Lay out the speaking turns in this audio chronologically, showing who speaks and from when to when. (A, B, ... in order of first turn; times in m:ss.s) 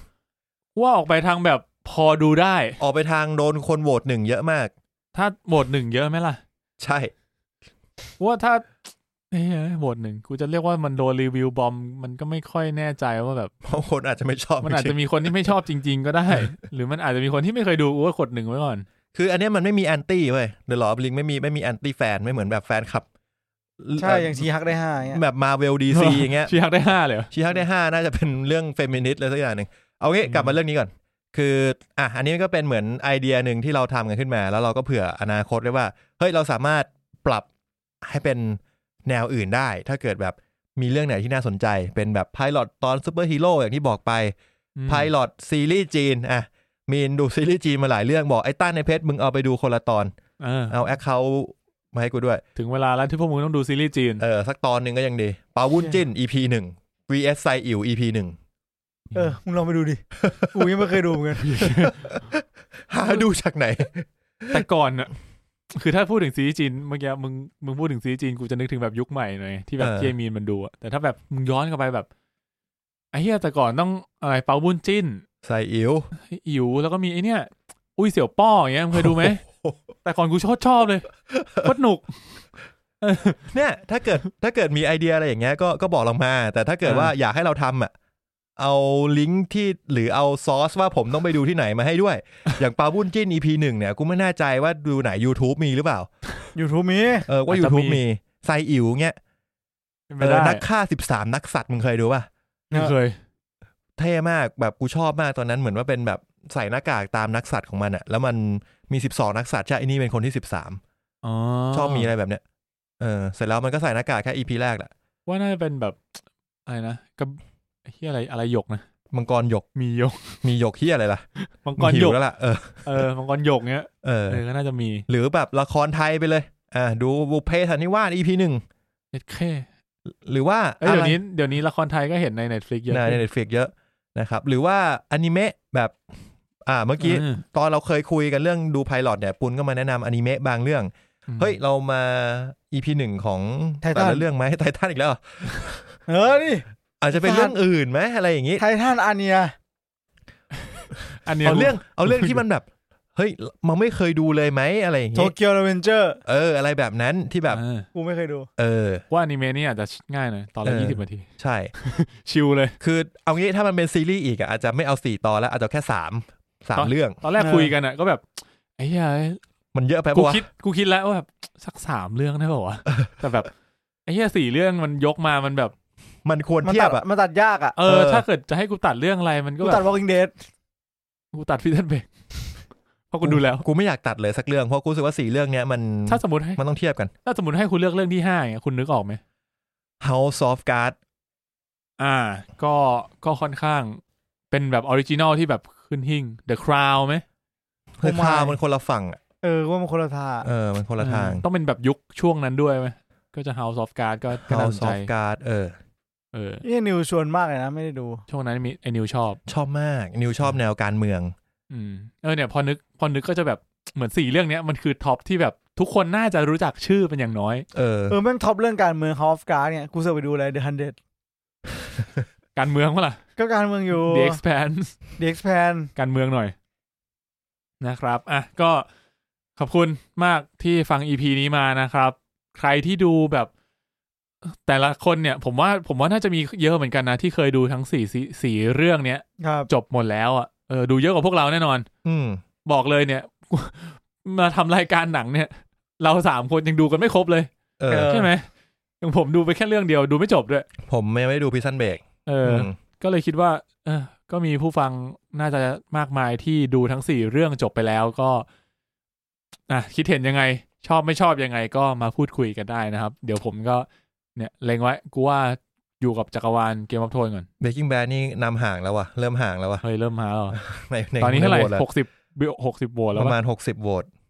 0:00.7-0:02.8 A
0:02.8-0:04.7 B
0:05.1-0:06.4 A
0:06.8-0:07.1 B
0:08.2-0:08.7 A
0:09.3-0:13.5 A
0:13.6-0:15.3 B
0:14.6-0:18.8 A
0:19.1-0:23.0 B
0:23.8-0:24.4 B
0:24.0-0:25.2 C
0:25.1-0:26.5 B
0:25.9-0:27.3 A
0:27.3-0:37.5 B
0:30.2-0:30.6 A
0:38.0-0:44.3 B
0:44.8-0:45.1 A
0:44.9-0:50.1 B
0:50.4-0:50.8 A
0:50.7-0:52.4 B
0:52.6-0:54.2 A
0:54.2-0:58.4 B
0:59.1-1:01.7 C
1:00.2-1:00.7 B
1:01.4-1:02.2 A
1:01.6-1:04.6 B
1:04.5-1:05.1 A
1:05.7-1:12.1 A
1:09.8-1:10.1 B
1:13.1-1:15.2 A
1:15.4-1:16.1 B
1:16.2-1:19.4 A
1:18.9-1:19.8 B
1:20.0-1:22.1 A
1:21.3-1:21.7 B
1:23.0-1:23.4 A
1:23.5-1:27.9 B
1:26.8-1:27.1 A
1:28.6-1:36.1 B
1:36.5-1:37.3 C
1:37.3-1:39.2 B
1:37.5-1:38.0 A
1:40.1-1:40.6 A
1:40.2-1:42.3 B
1:42.7-1:43.2 A
1:44.0-1:50.8 B
1:51.2-1:52.1 A
1:51.7-1:52.4 B
1:53.0-1:54.9 B
1:55.2-1:56.0 A
1:56.7-1:58.8 A
1:59.1-1:59.6 B
1:59.8-2:00.4 A
2:00.4-2:01.2 B
2:01.6-2:02.2 A
2:01.8-2:03.1 B
2:02.8-2:05.0 A
2:04.0-2:04.4 B
2:05.1-2:08.6 B
2:09.1-2:09.7 A
2:10.1-2:11.2 B
2:10.8-2:13.2 A
2:12.9-2:16.0 B
2:16.6-2:25.9 B
2:17.0-2:17.4 A
2:21.3-2:21.5 A
2:23.8-2:24.2 C
2:26.1-2:27.5 C
2:27.0-2:28.6 B
2:28.6-2:29.5 C
2:30.6-2:32.4 A
2:31.4-2:35.3 B
2:35.1-2:36.2 C
2:36.2-2:37.6 B
2:37.5-2:37.9 A
2:37.9-2:38.5 C
2:38.6-2:39.0 B
2:39.1-2:42.8 A
2:40.6-2:41.7 B
2:42.8-2:47.2 B
2:46.7-2:48.3 A
2:47.4-2:47.7 C
2:48.8-2:49.4 A
2:49.7-2:50.4 B
2:50.1-2:53.5 A
2:54.0-2:55.7 A
2:56.2-2:57.0 B
2:56.6-2:57.8 C
2:57.8-2:59.8 A
2:57.8-2:58.2 B
2:59.6-3:00.3 C
3:01.3-3:03.6 A
3:03.2-3:07.1 B
3:06.1-3:06.6 A
3:07.2-3:09.2 A
3:10.0-3:11.0 B
3:12.0-3:17.2 A
3:18.0-3:19.2 B
3:18.0-3:18.6 C
3:19.4-3:20.5 C
3:20.4-3:21.4 B
3:21.0-3:25.1 A
3:24.4-3:25.8 B
3:26.3-3:26.6 A
3:26.6-3:28.2 C
3:28.3-3:29.4 A
3:29.5-3:31.3 B
3:31.7-3:37.6 A
3:37.7-3:38.2 B
3:38.1-3:41.0 C
3:42.6-3:43.2 A
3:43.4-3:44.4 C
3:43.9-3:44.9 A
3:45.2-3:45.9 C
3:46.0-3:46.5 A
3:47.8-3:48.8 A
3:49.6-3:53.5 A
3:54.4-4:01.8 A
3:59.4-3:59.7 C
4:02.0-4:02.4 B
4:02.6-4:08.5 A
4:07.8-4:08.3 B
4:07.9-4:08.1 C
4:09.0-4:10.7 A
4:10.8-4:12.8 B
4:12.2-4:18.5 A
4:19.7-4:27.5 A
4:27.6-4:29.8 B
4:29.8-4:30.6 A
4:30.5-4:31.8 B
4:31.2-4:33.4 A
4:33.1-4:34.1 B